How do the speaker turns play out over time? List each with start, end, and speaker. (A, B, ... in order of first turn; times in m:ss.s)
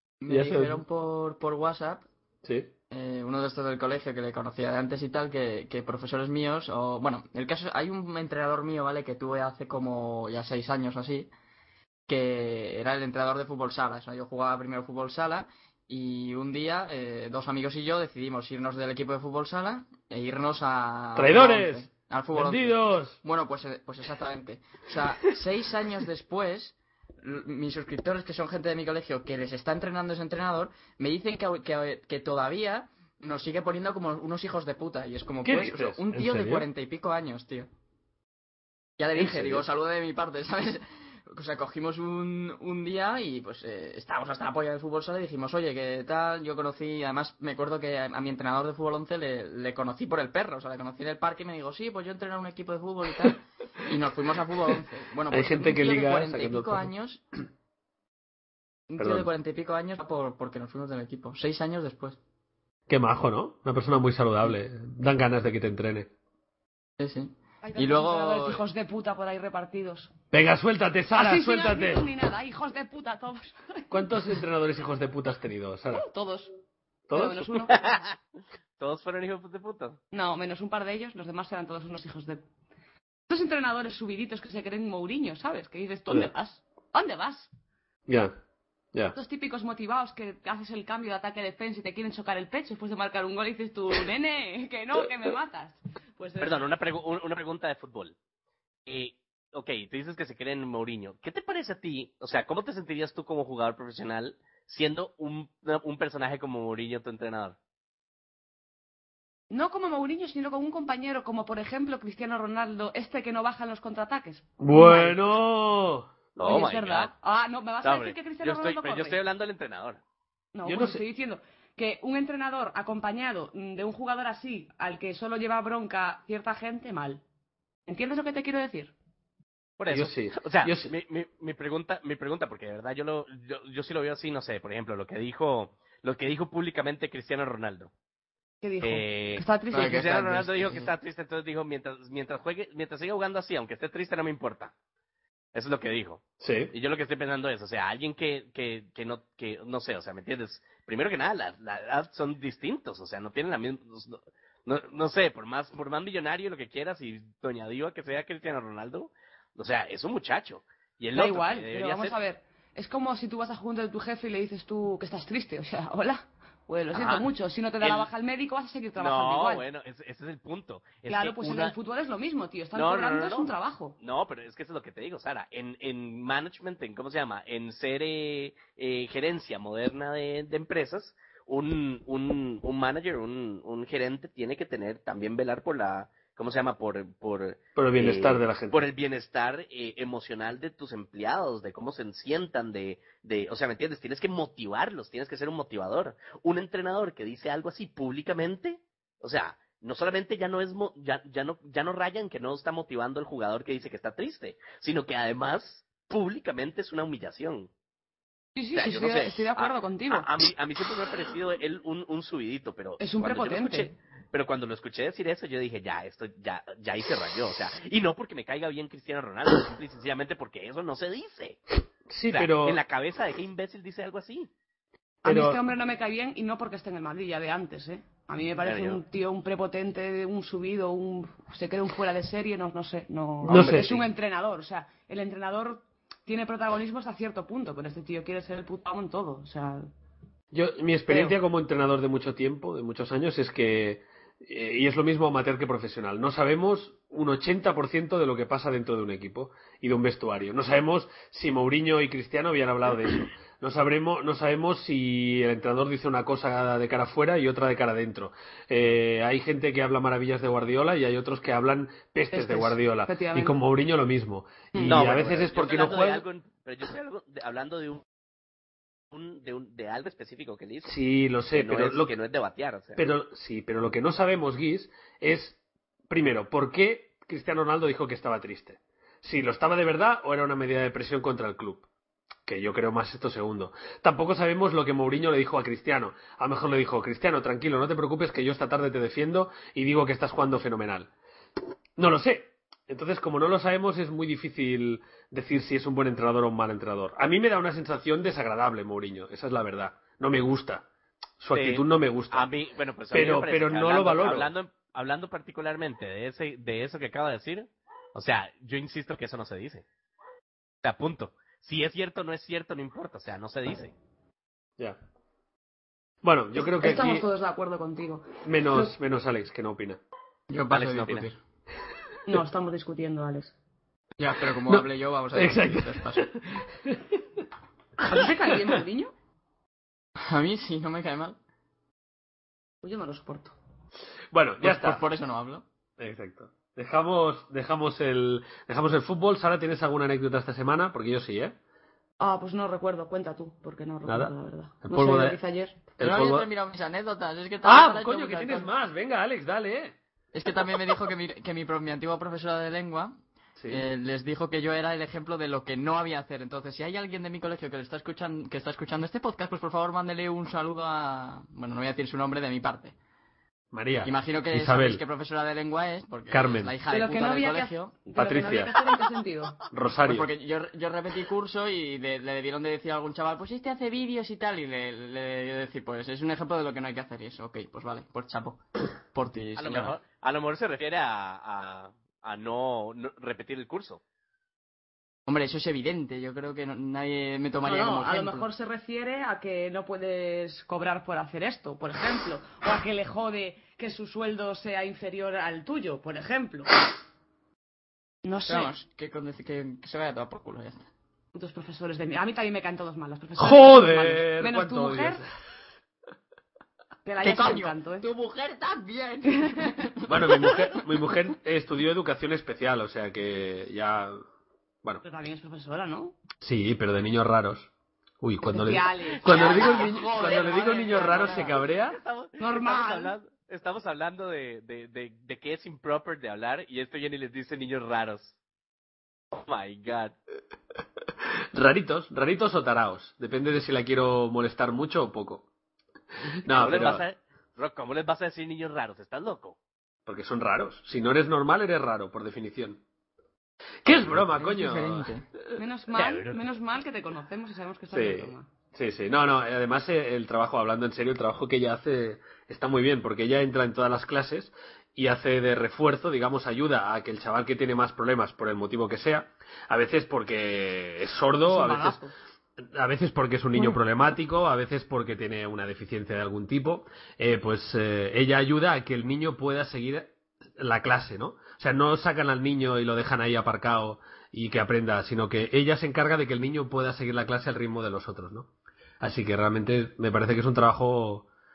0:00.2-0:02.0 A
0:00.3-0:00.8 B
0:02.4-0:02.7 B
0:02.9-0:11.3 A
0:12.1-0:37.7 A
0:21.2-0:23.2 B
0:35.4-0:36.6 B
0:39.0-0:57.2 A
0:39.2-0:39.6 B
0:55.3-0:56.9 B
0:58.9-1:02.2 A
0:59.0-0:59.3 B
1:02.9-1:06.1 B
1:07.0-1:08.6 A
1:07.6-1:10.1 C
1:10.3-1:12.1 B
1:11.2-1:14.4 C
1:13.9-1:16.0 B
1:15.9-1:16.5 C
1:17.1-1:17.5 B
1:17.1-1:17.8 C
1:17.7-1:18.2 D
1:18.8-1:20.0 D
1:20.1-1:22.4 C
1:23.3-1:27.5 C
1:28.1-1:28.4 B
1:29.2-1:36.7 C
1:36.4-1:38.2 D
1:38.9-1:47.6 D
1:49.5-1:55.2 C
1:54.6-1:56.1 B
1:56.4-1:57.1 D
1:56.4-1:59.2 C
1:57.8-2:00.0 D
2:00.5-2:07.2 C
2:00.6-2:01.0 B
2:07.9-2:08.9 C
2:09.8-2:17.9 D
2:09.9-2:10.9 B
2:18.6-2:20.2 C
2:18.8-2:24.7 D
2:19.7-2:20.9 A
2:25.5-2:42.2 D
2:26.4-2:26.7 B
2:41.1-2:49.6 C
2:46.9-2:47.3 D
2:47.8-2:48.1 D
2:49.0-2:51.8 D
2:51.1-2:54.0 C
2:52.8-3:27.7 D
3:07.8-3:08.8 B
3:28.6-3:30.3 C
3:28.8-3:41.6 D
3:33.0-3:33.9 C
3:42.1-3:42.8 B
3:42.3-3:44.5 D
3:45.2-3:59.9 C
3:45.2-3:45.6 B
3:48.6-3:49.0 D
3:53.4-3:54.0 B
3:53.5-3:53.9 D
4:00.5-4:26.2 B
4:01.1-4:01.4 C
4:22.3-4:23.6 C
4:24.7-4:25.0 C
4:24.8-4:28.0 D
4:29.1-4:31.0 D
4:30.8-4:32.1 B
4:31.5-4:33.0 D
4:33.0-4:35.6 B
4:36.1-4:41.9 B
4:42.5-4:51.1 B
4:52.0-5:00.9 B
5:01.4-5:02.5 B
5:01.5-5:09.8 D
5:03.1-5:04.5 B
5:10.8-5:13.9 D
5:16.2-5:17.2 B
5:16.6-5:18.9 C
5:18.4-5:20.0 B
5:20.5-5:21.4 A
5:20.7-5:21.3 D
5:22.3-5:23.6 C
5:24.2-5:26.3 A
5:24.7-5:27.0 B
5:28.0-5:29.1 C
5:30.2-5:31.4 A
5:32.8-5:33.6 C
5:34.3-5:35.0 B
5:34.6-5:35.6 A
5:36.0-5:41.6 B
5:42.2-5:45.8 C
5:44.1-5:45.4 B
5:46.0-5:46.5 B
5:46.0-5:48.7 A
5:47.6-5:50.0 B
5:50.3-5:53.1 A
5:53.7-6:03.0 A
6:03.7-6:05.0 B
6:04.0-6:08.0 A
6:06.3-6:06.7 B
6:06.9-6:09.6 C
6:08.2-6:08.7 B
6:09.7-6:10.3 B
6:10.0-6:20.0 A
6:19.6-6:24.0 D
6:25.3-6:28.5 A
6:27.6-6:36.7 C
6:38.2-6:38.7 C
6:38.5-6:40.8 A
6:41.3-6:45.2 C
6:43.4-6:45.3 B
6:47.0-6:48.1 C
6:47.2-6:50.8 A
6:50.1-6:54.2 B
6:55.0-6:56.2 C
6:56.4-6:57.7 B
6:58.2-7:02.0 B
6:58.4-7:01.5 C
6:59.3-7:01.5 A
6:59.3-7:08.4 D
7:02.4-7:03.2 C
7:09.3-7:10.2 D
7:11.5-7:15.5 B
7:16.4-7:17.0 B
7:16.5-7:19.6 D
7:20.1-7:22.8 B
7:23.8-7:25.1 B
7:24.0-7:25.3 A
7:25.6-7:28.5 C
7:26.0-7:26.4 D
7:27.9-7:42.0 B
7:41.5-7:42.1 C
7:42.7-7:58.5 B
7:59.0-8:01.3 B